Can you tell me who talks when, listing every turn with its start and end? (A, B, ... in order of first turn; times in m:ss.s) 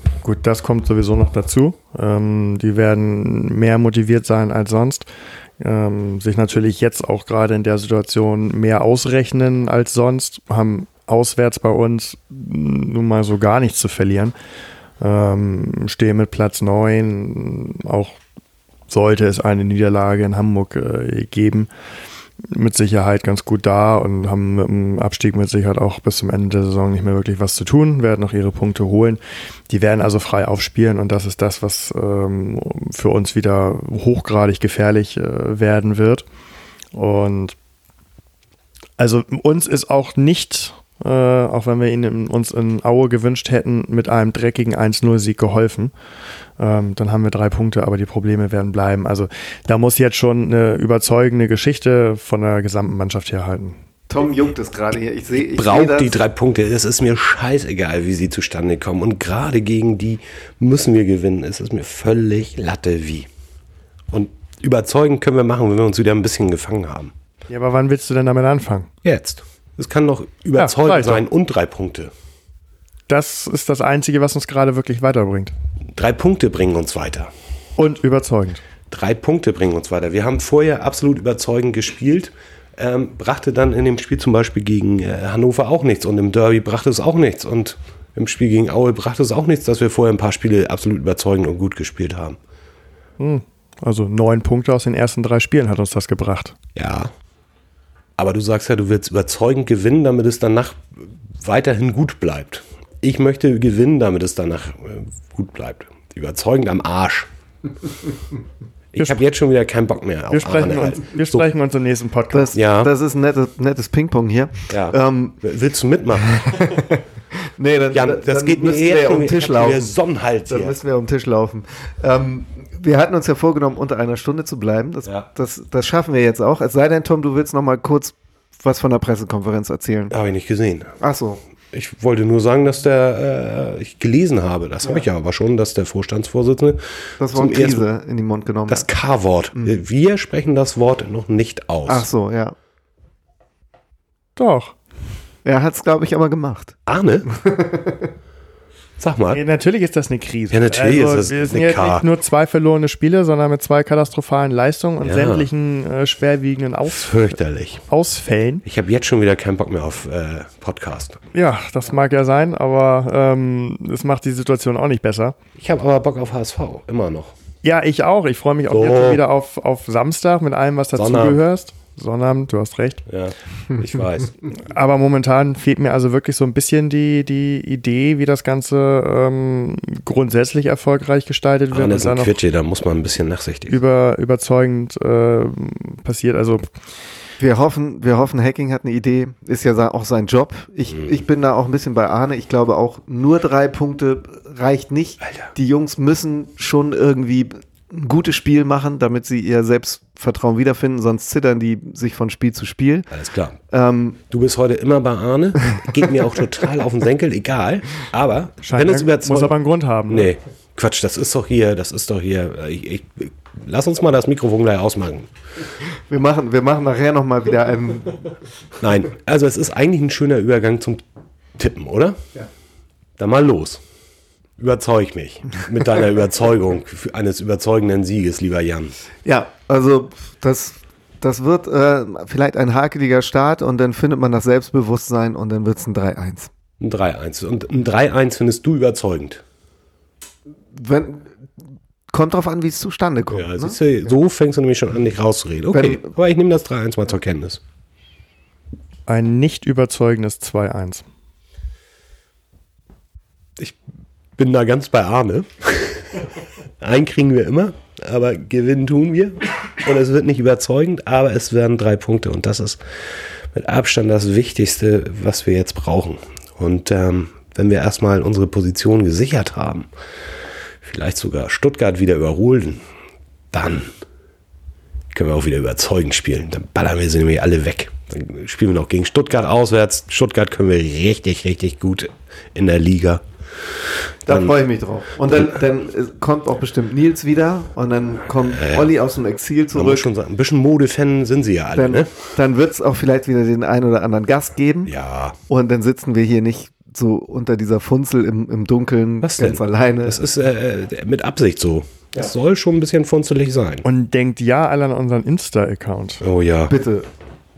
0:00.2-0:05.0 A
0:05.6-0:14.3 A
0:15.0-0:18.2 A
0:18.9-0:21.7 A
0:22.4-0:36.2 A
0:36.9-0:37.6 A
0:39.0-0:45.9 A
0:46.6-0:53.8 A
0:54.1-0:56.2 B
0:55.5-1:03.3 C
1:04.1-1:07.1 C
1:07.5-1:08.9 A
1:09.0-1:12.1 C
1:10.6-1:11.2 A
1:13.1-1:15.5 A
1:15.9-1:17.3 C
1:17.8-1:18.6 A
1:18.9-1:32.4 C
1:33.2-1:36.6 A
1:36.7-1:37.1 C
1:38.2-1:47.3 C
1:48.9-1:51.5 C
1:50.3-1:52.5 A
1:52.3-1:55.4 B
1:52.5-1:52.9 C
1:54.7-1:56.4 C
1:56.3-1:59.9 B
1:57.9-2:00.8 C
2:00.4-2:10.1 B
2:10.1-2:10.9 C
2:11.0-2:11.4 B
2:11.7-2:17.8 C
2:17.2-2:18.9 B
2:18.7-2:22.0 C
2:21.9-2:22.5 B
2:24.4-2:24.7 A
2:25.4-2:28.1 B
2:26.9-2:27.3 C
2:29.0-2:29.4 C
2:29.3-2:37.4 A
2:30.5-2:32.1 C
2:35.0-2:35.5 C
2:36.8-2:37.8 C
2:37.9-2:38.6 A
2:38.6-2:41.2 C
2:41.3-2:45.4 A
2:45.6-2:47.4 C
2:47.6-2:53.0 A
2:48.7-2:49.2 C
2:51.0-2:51.4 C
2:53.1-2:54.4 C
2:54.6-3:02.4 A
3:01.7-3:03.8 C
3:03.7-3:06.6 A
3:07.4-3:23.1 B
3:23.1-3:23.6 C
3:23.7-3:24.2 B
3:24.3-3:29.5 C
3:28.6-3:30.3 A
3:30.1-3:35.3 C
3:36.1-3:38.3 B
3:38.8-3:41.0 C
3:41.6-3:42.2 C
3:43.2-3:43.8 C
3:44.6-3:49.0 C
3:49.2-3:56.5 B
3:56.8-3:59.4 C
4:00.7-4:01.3 B
4:02.1-4:03.8 B
4:03.3-4:07.6 C
4:05.7-4:06.1 B
4:09.1-4:11.0 A
4:14.4-4:29.9 C
4:30.8-4:32.8 C
4:33.5-4:33.9 C
4:35.1-4:44.6 C
4:44.3-4:50.1 B
4:48.5-4:48.9 C
4:49.7-4:52.1 C
4:51.7-4:54.9 B
4:54.8-4:55.4 C
4:55.5-5:00.2 B
4:59.2-5:03.8 C
5:03.8-5:06.2 A
5:06.2-5:06.7 C
5:06.7-5:07.0 B